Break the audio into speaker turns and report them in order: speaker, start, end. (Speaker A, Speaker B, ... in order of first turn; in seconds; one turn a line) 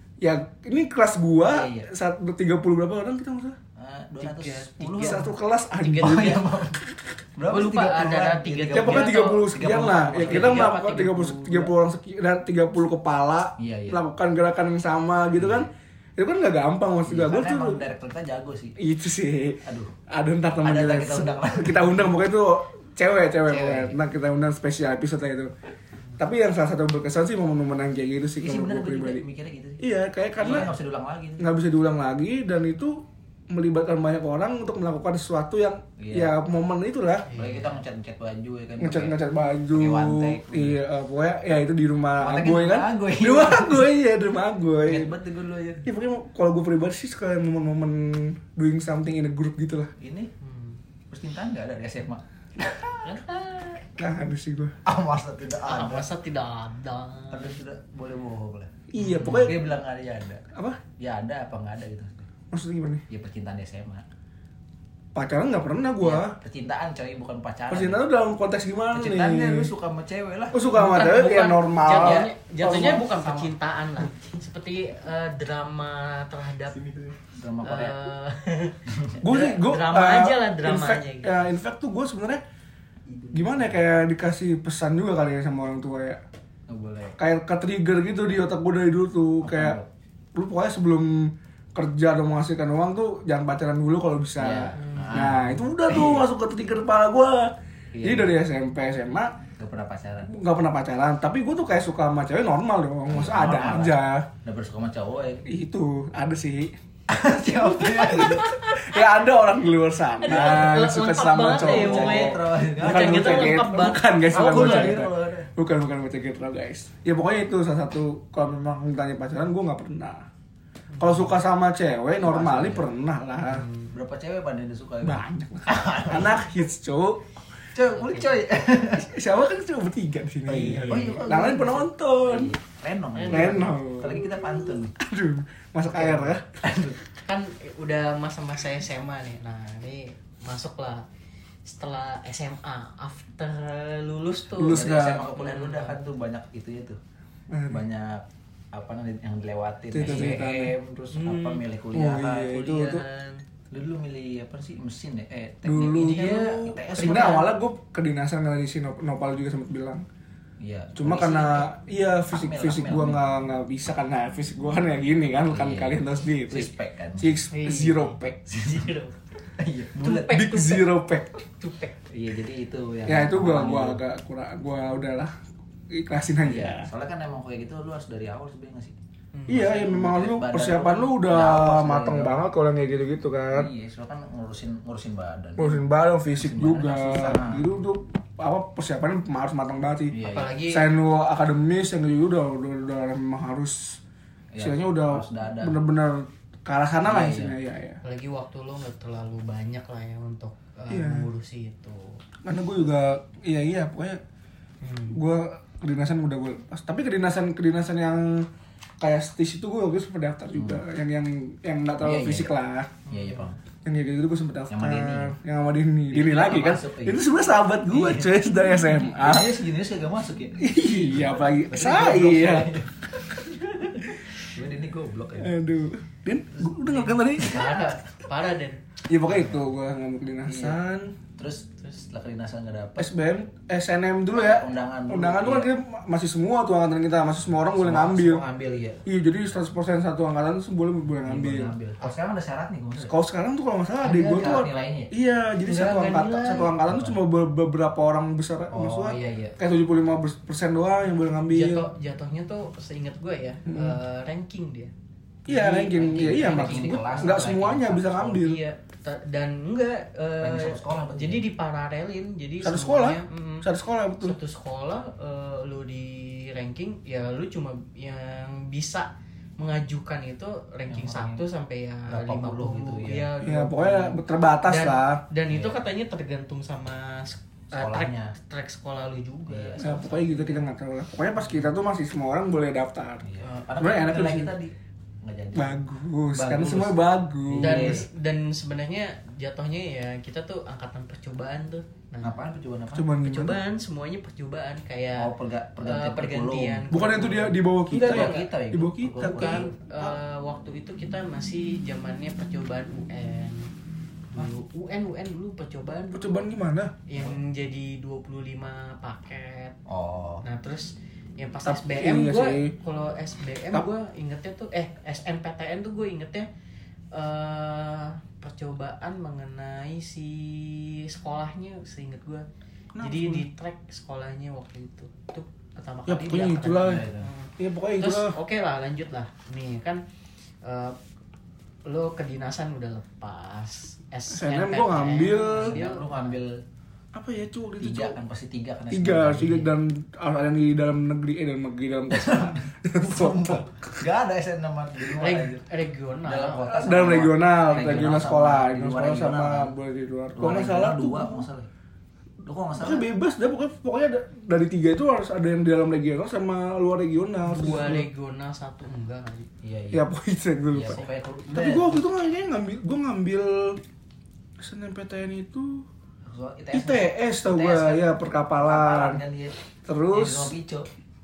Speaker A: 0.2-3.6
Speaker B: 1.4-1.9
Speaker B: 3.8-5.3
Speaker C: 4.2-5.2
Speaker A: 5.0-6.5
Speaker C: 5.8-6.4
Speaker B: 6.0-6.8
Speaker B: 7.4-10.8
Speaker C: 7.5-11.7
Speaker A: 8.7-17.8
Speaker B: 13.6-14.0
Speaker B: 15.4-15.7
Speaker B: 17.1-18.8
Speaker A: 18.8-25.5
Speaker B: 19.6-19.9
Speaker B: 20.6-22.1
Speaker B: 23.5-24.0
Speaker A: 26.2-29.2
Speaker B: 28.4-29.8
Speaker A: 29.8-30.7
Speaker B: 30.4-31.5
Speaker A: 31.4-37.3
Speaker B: 36.0-36.3
Speaker C: 37.3-37.8
Speaker B: 37.3-39.2
Speaker A: 38.8-45.1
Speaker B: 39.7-40.8
Speaker B: 42.2-43.9
Speaker B: 44.9-45.9
Speaker A: 45.8-49.9
Speaker B: 50.0-50.3
Speaker C: 50.4-50.8
Speaker B: 51.1-53.2
Speaker C: 53.0-53.9
Speaker A: 54.0-54.8
Speaker B: 54.9-56.1
Speaker C: 55.6-57.6
Speaker B: 57.3-60.4
Speaker A: 58.9-59.6
Speaker C: 59.0-59.5
Speaker A: 60.5-60.8
Speaker B: 61.0-62.3
Speaker A: 62.5-63.0
Speaker B: 63.1-64.0
Speaker A: 65.2-66.3
Speaker B: 66.0-68.0
Speaker A: 67.7-69.7
Speaker B: 68.9-70.7
Speaker A: 70.5-73.5
Speaker C: 70.7-76.8
Speaker B: 76.8-78.0
Speaker C: 77.6-81.4
Speaker B: 78.9-79.2
Speaker A: 79.2-82.4
Speaker B: 83.1-83.8
Speaker A: 83.3-86.2
Speaker B: 86.7-87.2
Speaker A: 87.2-89.8
Speaker B: 89.4-89.9
Speaker A: 90.3-99.4
Speaker B: 94.4-96.3
Speaker C: 94.8-95.3
Speaker B: 97.9-98.4
Speaker B: 99.6-100.4
Speaker A: 100.3-104.3
Speaker B: 103.1-105.5
Speaker A: 105.5-106.8
Speaker B: 107.1-108.5
Speaker A: 107.8-120.3
Speaker C: 108.1-108.9
Speaker C: 110.2-115.3
Speaker B: 110.3-110.7
Speaker B: 111.5-113.6
Speaker B: 114.3-115.5
Speaker C: 120.9-121.3
Speaker A: 121.0-123.7
Speaker B: 122.2-122.9
Speaker C: 123.5-123.9
Speaker B: 123.9-126.4
Speaker A: 125.0-127.2
Speaker B: 127.7-129.1
Speaker C: 127.9-128.4
Speaker A: 128.9-132.6
Speaker C: 130.5-131.2
Speaker B: 130.5-134.9
Speaker C: 133.2-133.7
Speaker A: 133.3-136.5
Speaker C: 136.0-136.3
Speaker B: 136.6-137.0
Speaker C: 137.2-141.0
Speaker C: 141.7-146.0
Speaker A: 144.6-145.3
Speaker B: 144.6-147.0
Speaker A: 147.5-147.8
Speaker B: 147.7-152.6
Speaker A: 149.9-150.7
Speaker C: 150.0-150.4
Speaker C: 151.1-151.6
Speaker A: 151.9-153.0
Speaker C: 152.5-153.4
Speaker B: 153.7-157.5
Speaker A: 155.6-160.0
Speaker C: 156.0-157.5
Speaker B: 160.6-161.7
Speaker A: 161.0-168.5
Speaker B: 162.3-163.2
Speaker B: 165.4-167.4
Speaker C: 167.5-169.2
Speaker B: 168.5-168.9
Speaker B: 169.6-170.4
Speaker C: 170.0-170.9
Speaker A: 170.3-171.3
Speaker C: 171.5-171.9
Speaker B: 172.1-174.0
Speaker A: 173.1-175.3
Speaker A: 175.9-176.9
Speaker B: 176.4-178.9
Speaker C: 179.3-179.7
Speaker A: 179.5-183.7
Speaker B: 179.5-182.4
Speaker B: 183.5-185.8
Speaker A: 185.6-194.0
Speaker B: 186.4-187.7
Speaker B: 190.1-190.6
Speaker C: 190.2-190.8
Speaker B: 194.5-195.8
Speaker A: 194.6-198.0
Speaker B: 197.1-197.6
Speaker C: 198.0-202.2
Speaker A: 200.9-201.3
Speaker A: 202.4-204.2
Speaker C: 204.8-205.2
Speaker A: 205.1-208.5
Speaker A: 209.0-213.0
Speaker B: 210.6-210.8
Speaker B: 212.0-212.5
Speaker C: 213.1-213.5
Speaker B: 213.1-213.6
Speaker A: 213.8-219.6
Speaker B: 214.7-215.3
Speaker B: 216.1-217.3
Speaker B: 217.9-218.5
Speaker B: 219.2-225.6
Speaker A: 220.6-222.7
Speaker A: 225.4-227.8
Speaker B: 226.7-227.7
Speaker C: 227.3-228.8
Speaker A: 229.1-231.2
Speaker B: 229.3-229.6
Speaker B: 230.4-230.8
Speaker B: 231.4-233.1
Speaker A: 233.0-238.4
Speaker B: 234.3-235.7
Speaker B: 237.7-239.0
Speaker A: 239.1-241.7
Speaker B: 241.2-243.1
Speaker A: 243.0-251.9
Speaker B: 244.0-245.1
Speaker C: 245.7-246.7
Speaker B: 246.8-247.2
Speaker B: 248.7-249.6
Speaker C: 251.5-254.9
Speaker A: 253.7-254.0
Speaker A: 255.5-258.6
Speaker C: 255.5-257.4
Speaker B: 256.0-258.5
Speaker C: 258.3-263.7
Speaker B: 260.4-261.5
Speaker A: 262.6-264.4
Speaker C: 264.2-280.3
Speaker B: 270.9-271.4
Speaker B: 272.1-273.3
Speaker A: 273.4-275.2
Speaker B: 275.5-275.8
Speaker B: 277.8-278.3
Speaker B: 279.5-280.6
Speaker A: 279.8-284.5
Speaker B: 283.2-285.8
Speaker A: 285.6-288.1
Speaker B: 286.3-288.1
Speaker C: 287.6-292.4
Speaker B: 292.2-293.1
Speaker A: 292.9-293.6
Speaker C: 293.2-298.4
Speaker B: 295.2-296.9
Speaker A: 296.9-299.7
Speaker B: 297.9-299.7
Speaker C: 299.2-303.7
Speaker C: 304.3-306.5
Speaker A: 306.1-306.9
Speaker C: 307.1-309.8
Speaker B: 309.9-310.4
Speaker C: 310.4-316.5
Speaker A: 311.6-312.7
Speaker C: 317.1-322.5
Speaker A: 322.9-323.5
Speaker C: 323.0-330.0
Speaker A: 326.1-327.1
Speaker B: 326.6-327.3
Speaker A: 327.6-328.4
Speaker C: 330.6-331.0
Speaker C: 331.9-336.4
Speaker A: 334.3-335.8
Speaker B: 335.5-336.6
Speaker A: 337.1-338.2
Speaker B: 337.8-339.7
Speaker A: 338.9-344.0
Speaker B: 342.1-345.6
Speaker C: 345.1-346.8
Speaker B: 346.2-349.7
Speaker A: 346.7-351.5
Speaker B: 350.4-351.7
Speaker B: 352.4-353.1
Speaker A: 352.8-358.1
Speaker C: 357.4-359.5
Speaker B: 359.6-360.1
Speaker A: 359.9-363.8
Speaker B: 360.7-362.0
Speaker A: 364.6-365.9
Speaker B: 366.3-368.1
Speaker A: 366.7-369.2
Speaker B: 368.6-369.6
Speaker A: 369.9-370.6
Speaker B: 370.1-370.9